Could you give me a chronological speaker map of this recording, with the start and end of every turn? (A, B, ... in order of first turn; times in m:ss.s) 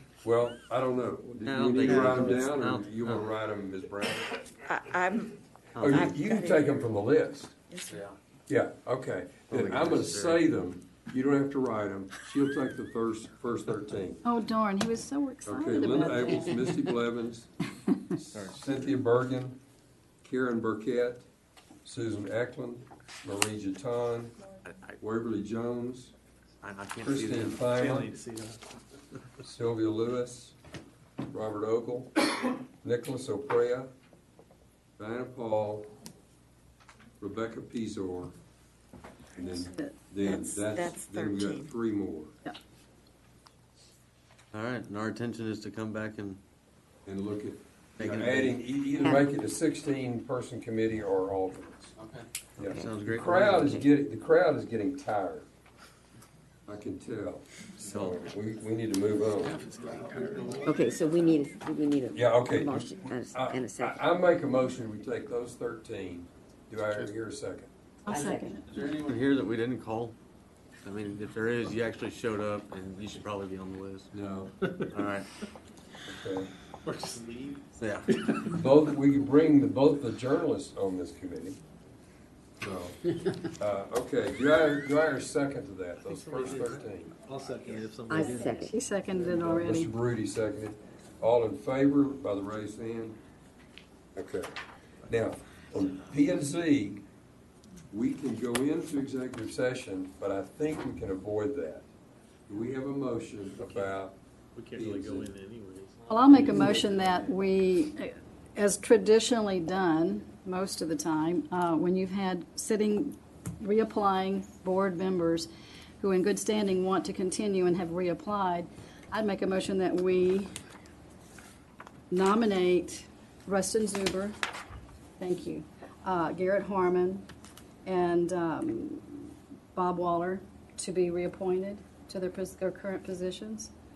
0:00.2-0:04.4 A
0:01.4-0:03.3 B
0:04.6-0:05.3 C
0:05.7-0:06.1 B
0:05.8-0:07.5 A
0:05.9-0:06.8 C
0:07.7-0:08.0 C
0:07.9-0:08.1 B
0:08.5-0:14.2 A
0:09.5-0:10.4 B
0:14.2-0:17.0 D
0:15.4-0:17.5 A
0:18.1-0:19.6 A
0:18.3-0:18.6 B
0:20.2-0:21.3 A
0:21.8-0:24.4 A
0:24.6-0:25.0 B
0:25.0-0:26.1 A
0:26.6-0:27.6 B
0:27.0-0:28.1 A
0:27.2-0:28.6 E
0:29.4-0:30.6 A
0:31.3-0:32.3 A
0:32.8-0:33.9 A
0:35.0-0:35.9 A
0:37.2-0:38.3 A
0:39.4-0:40.0 D
0:39.4-0:42.4 A
0:40.2-0:41.8 C
0:44.5-0:46.4 B
0:47.0-0:51.9 A
0:48.0-0:48.6 B
0:52.0-0:53.6 B
0:52.6-0:55.5 A
0:52.7-0:53.9 F
0:56.7-0:59.6 A
0:57.8-0:58.2 B
0:59.5-1:00.5 E
1:00.6-1:04.0 F
1:02.1-1:07.7 A
1:08.0-1:08.6 D
1:08.1-1:08.4 F
1:08.2-1:10.2 B
1:10.8-1:14.1 B
1:14.1-1:14.5 A
1:14.6-1:14.9 E
1:14.9-1:15.3 B
1:16.0-1:16.5 A
1:16.8-1:18.6 E
1:17.8-1:18.1 B
1:18.4-1:21.6 A
1:22.6-1:23.0 A
1:23.6-1:27.2 A
1:26.1-1:28.6 E
1:28.1-1:28.7 F
1:28.4-1:29.9 D
1:29.1-1:33.2 A
1:34.2-1:34.5 A
1:35.1-1:37.0 A
1:37.9-1:41.9 A
1:42.5-1:44.2 A
1:43.6-1:44.0 E
1:44.5-1:47.2 E
1:44.7-1:45.3 A
1:46.1-1:55.5 D
1:46.7-1:47.0 A
1:56.0-2:00.5 D
2:02.1-2:04.4 D
2:05.2-2:07.3 D
2:07.8-2:13.7 D